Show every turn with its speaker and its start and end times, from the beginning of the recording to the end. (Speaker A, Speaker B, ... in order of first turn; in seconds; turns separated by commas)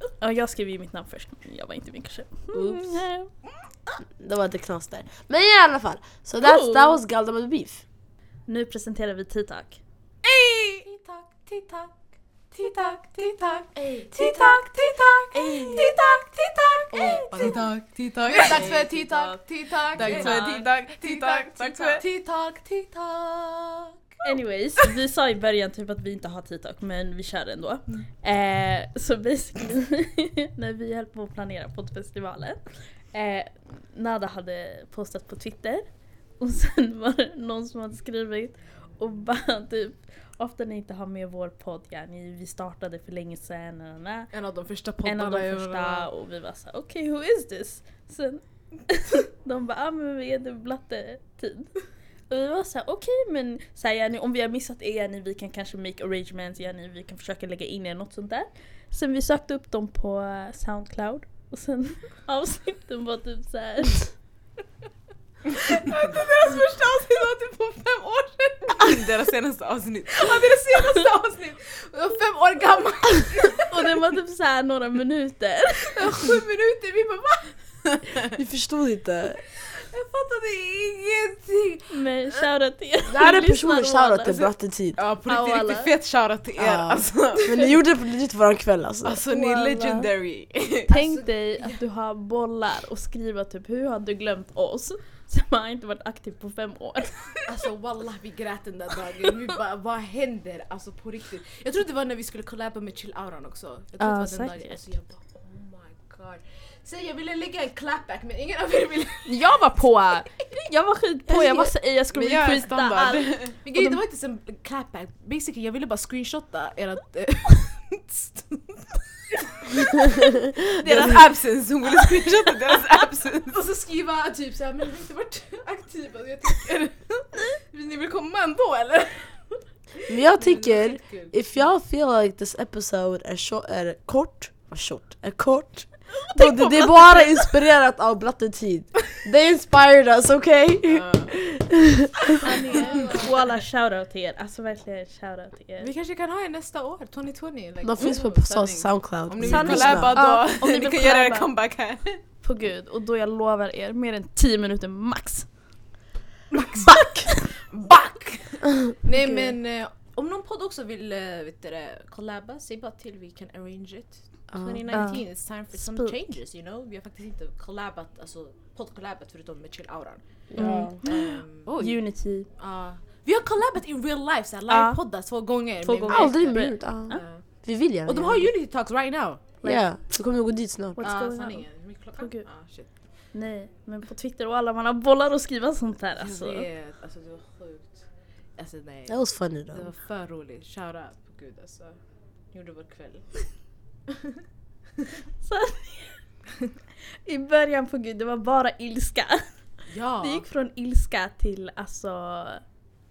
Speaker A: 0.2-3.3, Speaker B: 2.5-2.9, Speaker B: 4.2-7.8, Speaker A: 6.4-7.0, Speaker A: 8.5-9.8, Speaker C: 10.2-11.9, Speaker C: 12.5-17.6, Speaker D: 13.3-13.5, Speaker B: 13.8-14.4, Speaker B: 15.3-15.9, Speaker D: 16.9-18.9, Speaker C: 18.2-24.0, Speaker A: 18.4-19.4, Speaker A: 19.9-20.6, Speaker D: 19.9-22.0, Speaker A: 24.2-35.9, Speaker A: 36.4-44.3, Speaker C: 44.3-46.1, Speaker A: 45.0-51.8, Speaker A: 52.3-64.1, Speaker C: 65.5-69.0, Speaker D: 68.8-70.4, Speaker C: 70.1-73.9, Speaker A: 73.7-76.3, Speaker C: 75.9-77.5, Speaker B: 78.3-79.4, Speaker C: 79.6-82.4, Speaker A: 81.9-84.3, Speaker B: 83.1-85.0, Speaker D: 85.0-87.7, Speaker A: 85.2-85.9, Speaker B: 86.6-89.2, Speaker D: 89.0-90.9, Speaker A: 89.3-90.1, Speaker A: 90.9-97.3, Speaker C: 90.9-91.8, Speaker C: 97.5-109.5, Speaker A: 104.0-104.8, Speaker A: 109.2-114.0, Speaker B: 111.3-111.7, Speaker D: 112.1-113.5, Speaker C: 113.6-119.9, Speaker D: 120.8-123.6, Speaker C: 123.5-129.3, Speaker B: 130.1-142.4, Speaker C: 130.3-131.3, Speaker D: 140.9-141.3, Speaker A: 142.4-145.9, Speaker C: 142.5-143.3, Speaker C: 145.8-148.4, Speaker B: 147.8-150.2, Speaker D: 148.1-152.2, Speaker A: 149.4-151.5, Speaker A: 152.4-155.5, Speaker C: 156.6-170.2, Speaker A: 156.9-157.4, Speaker A: 159.2-159.5, Speaker B: 164.5-165.1, Speaker A: 164.9-166.2, Speaker B: 170.5-171.0, Speaker A: 170.5-172.5, Speaker C: 171.0-177.4, Speaker A: 174.7-175.0, Speaker A: 175.8-177.2, Speaker B: 176.1-178.5, Speaker C: 178.0-179.4, Speaker B: 179.6-181.0, Speaker A: 181.0-182.5, Speaker C: 181.0-182.9, Speaker A: 183.3-186.7, Speaker C: 186.2-189.2, Speaker B: 189.1-189.9, Speaker C: 189.7-191.9, Speaker C: 192.5-193.3, Speaker A: 195.4-196.2, Speaker A: 197.2-199.4, Speaker C: 199.9-200.4, Speaker A: 200.2-202.6